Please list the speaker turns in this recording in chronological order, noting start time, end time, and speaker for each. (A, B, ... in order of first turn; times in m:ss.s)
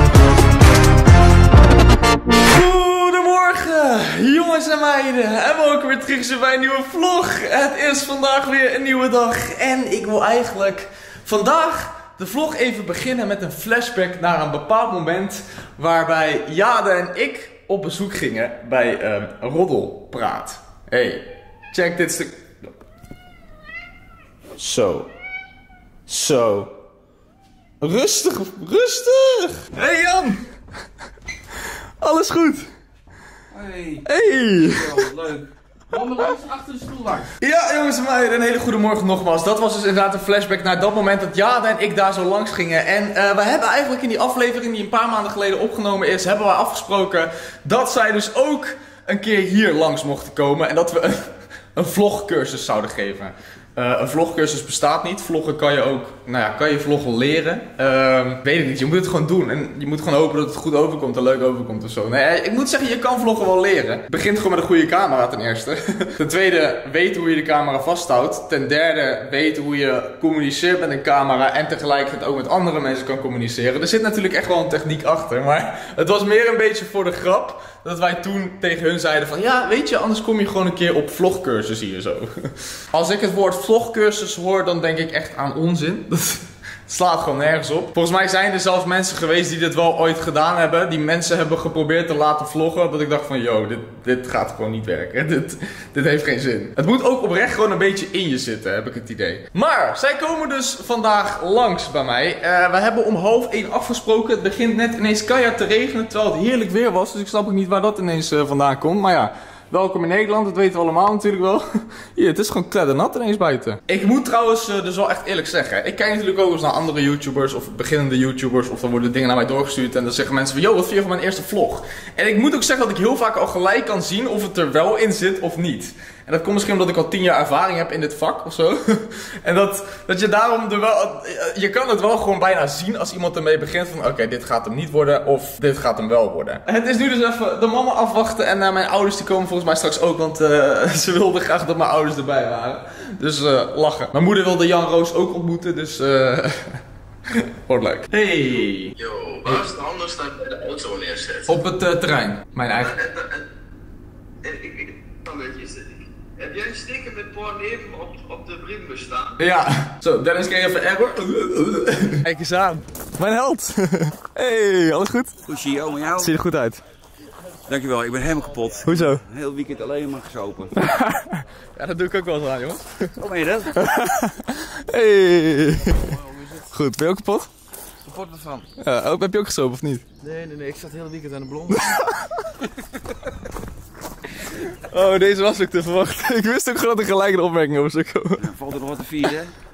0:02.4-0:22.5 A
0:24.6-0:25.1 A
0:26.1-0:26.7 A
0:27.8-0:30.4 A
0:32.0-0:32.7 A
0:33.5-0:34.1 B
0:34.0-0:35.0 A
0:34.6-0:37.3 C
0:37.4-2:28.9 A
2:29.0-2:31.6 C
2:31.5-2:33.0 A
2:32.7-2:33.4 C
2:34.4-2:39.4 C
2:39.4-2:45.4 A
2:45.4-2:46.3 B
2:46.1-2:46.8 A
2:47.7-2:50.9 B
2:48.8-2:49.2 A
2:50.8-2:53.2 A
2:53.2-2:53.8 B
2:53.7-2:56.0 A
2:55.8-2:56.7 C
2:56.7-2:57.5 A
2:58.0-2:58.7 C
2:58.8-3:00.0 A
3:00.2-3:02.0 C
3:01.7-3:02.4 A
3:04.8-3:08.5 A
3:08.4-3:09.5 B